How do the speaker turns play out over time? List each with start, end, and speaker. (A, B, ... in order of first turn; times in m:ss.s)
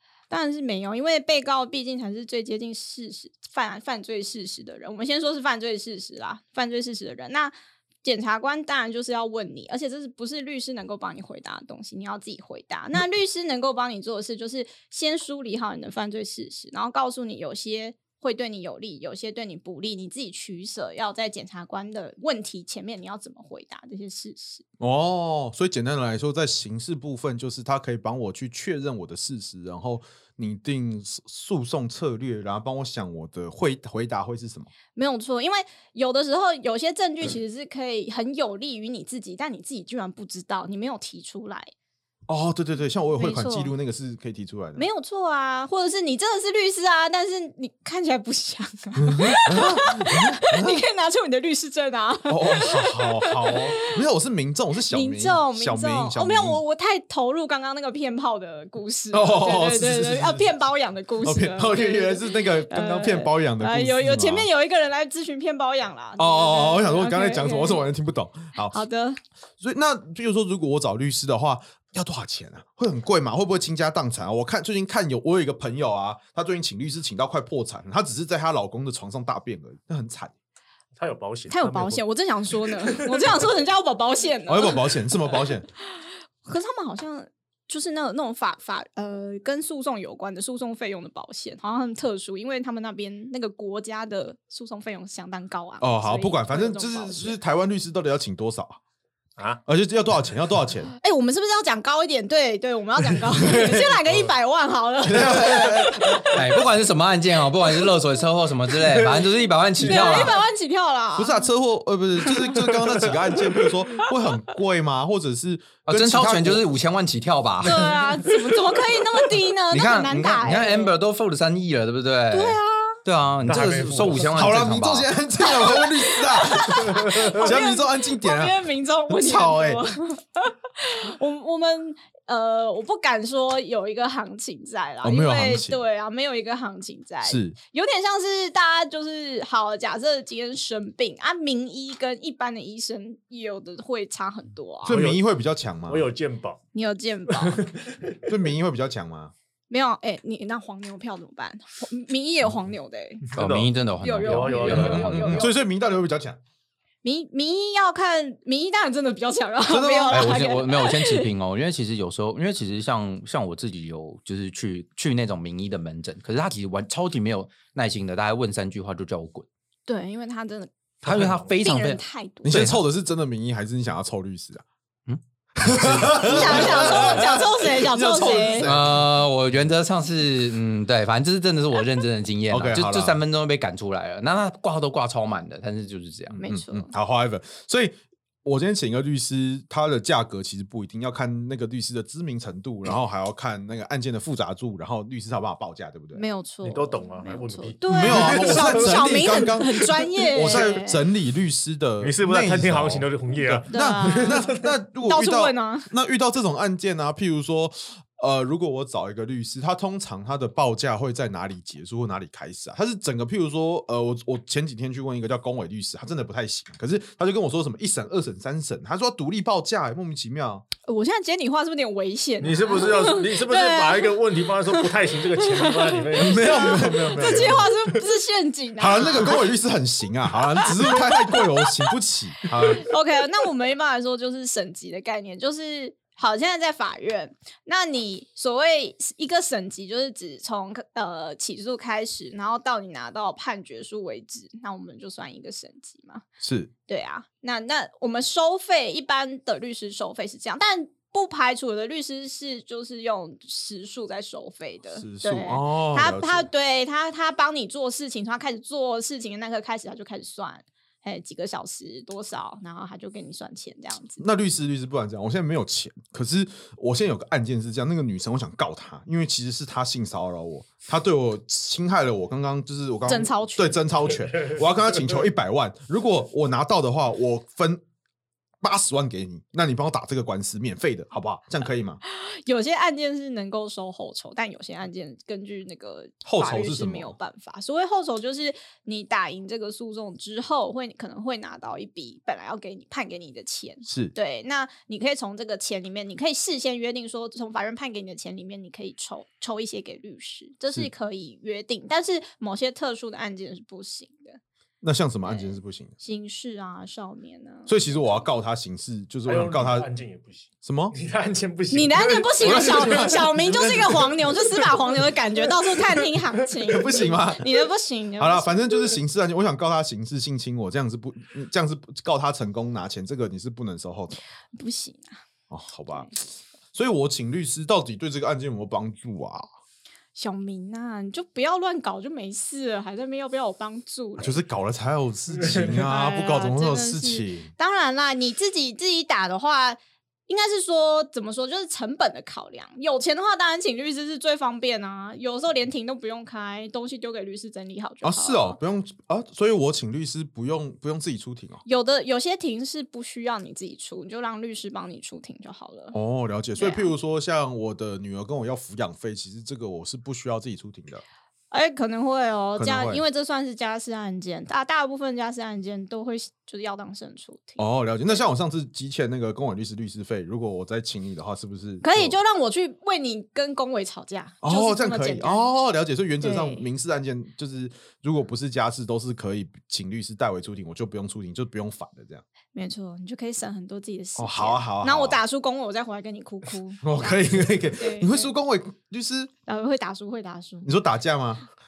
0:00.3-0:24.6 A
0:24.8-0:34.7 B
0:34.9-0:41.7 A
0:42.3-0:44.8 B
0:43.2-0:43.7 A
0:44.8-0:53.6 A
0:49.0-0:50.8 B
0:52.3-0:56.6 B
0:54.9-1:07.8 A
0:59.1-1:00.5 B
1:01.2-1:04.5 B
1:06.2-1:08.8 B
1:08.7-1:09.2 A
1:09.6-1:20.3 B
1:21.0-1:23.3 C
1:21.5-1:25.2 A
1:24.4-1:25.6 B
1:25.9-1:37.4 A
1:35.8-1:38.8 B
1:39.6-1:40.9 B
1:41.0-1:46.4 A
1:43.5-1:43.8 C
1:45.0-1:46.2 B
1:46.2-1:50.4 D
1:49.8-1:51.5 A
1:51.2-1:56.6 B
1:55.8-1:57.9 D
1:57.6-2:00.9 A
1:59.7-2:05.1 D
2:02.3-2:03.0 A
2:03.4-2:04.5 C
2:04.3-2:09.8 B
2:05.4-2:25.0 A
2:15.0-2:15.8 B
2:17.2-2:17.6 B
2:24.8-2:26.1 B
2:24.9-2:25.2 C
2:25.8-2:26.6 C
2:26.7-2:27.6 A
2:27.5-2:28.2 C
2:28.2-2:29.3 B
2:29.7-2:33.3 A
2:33.3-2:35.4 C
2:33.3-2:35.2 D
2:34.0-2:35.6 A
2:34.7-2:36.4 B
2:37.0-2:41.3 A
2:39.6-2:40.4 B
2:40.1-2:49.4 D
2:49.8-2:50.7 A
2:51.0-2:51.5 C
2:51.0-2:52.8 D
2:51.5-2:52.5 A
2:52.4-2:54.6 B
2:55.1-2:57.3 D
2:55.6-2:59.0 B
2:56.1-2:58.7 A
2:58.6-3:06.5 D
3:02.5-3:03.2 B
3:06.3-3:16.2 B
3:06.4-3:06.9 A
3:16.1-3:21.0 A
3:16.6-3:19.4 C
3:17.9-3:40.6 B
3:22.0-3:24.7 C
3:23.7-3:25.9 A
3:40.8-3:44.1 A
3:42.4-3:47.6 C
3:44.7-3:45.0 A
3:45.5-3:49.4 A
3:46.2-3:47.7 B
3:48.8-3:52.8 B
3:50.6-3:51.4 A
3:52.6-4:06.2 A
4:06.4-4:06.7 B
4:06.9-4:24.2 A
4:14.9-4:16.5 B
4:24.2-4:37.8 B
4:33.1-4:33.8 A
4:38.6-4:42.0 B
4:42.1-5:04.4 A
4:46.2-4:47.2 B
4:53.8-4:54.1 B
5:04.8-5:05.9 B
5:05.2-5:08.2 A
5:07.7-5:09.9 B
5:09.2-5:14.4 C
5:10.6-5:10.9 B
5:11.7-5:18.7 A
5:12.4-5:13.7 B
5:16.6-5:17.5 B
5:18.2-5:24.2 B
5:24.5-5:25.2 A
5:25.5-5:29.5 B
5:30.1-5:34.4 A
5:34.2-5:37.5 B
5:35.8-5:48.6 A
5:48.0-5:51.6 B
5:51.6-5:56.0 A
5:55.9-6:01.0 B
5:56.6-5:56.9 A
6:01.5-6:08.2 A
6:02.6-6:03.0 B
6:07.6-6:12.2 B
6:11.8-6:15.5 A
6:14.4-6:22.2 B
6:16.2-6:16.6 A
6:22.5-6:28.3 A
6:24.2-6:25.2 B
6:26.8-6:29.3 B
6:29.4-6:30.7 A
6:30.6-6:31.5 B